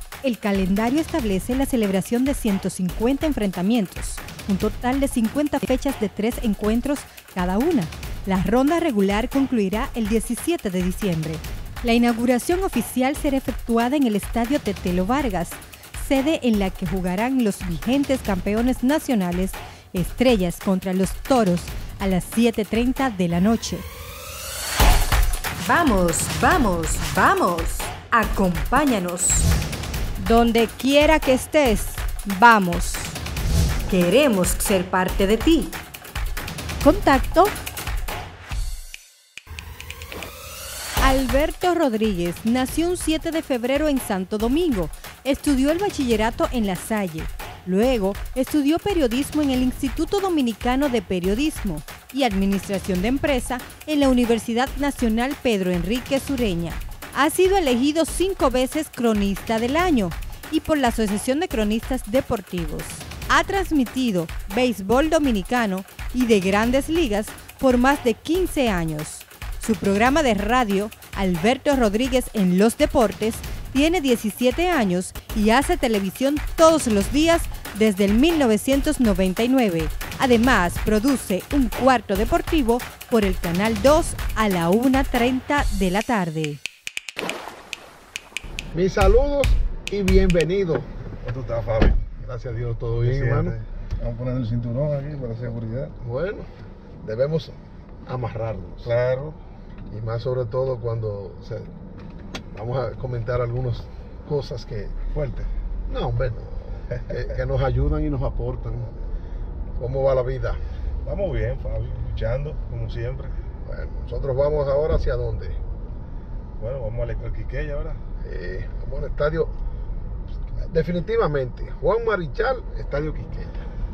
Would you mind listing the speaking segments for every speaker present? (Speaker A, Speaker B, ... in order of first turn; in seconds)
Speaker A: 0.2-23.9, 25.6-29.5, 30.2-33.2, 33.9-35.8, 36.8-37.5, 41.0-86.6
Speaker B: 88.7-90.9, 92.2-96.5, 97.0-98.9, 99.9-101.7, 102.5-105.2, 105.9-108.9, 109.8-110.6, 113.7-115.6, 118.2-119.5, 120.6-123.7
Speaker C: 91.2-92.0, 93.0-93.7, 98.8-99.4, 105.1-105.5, 106.9-107.2, 111.0-113.3, 116.6-118.0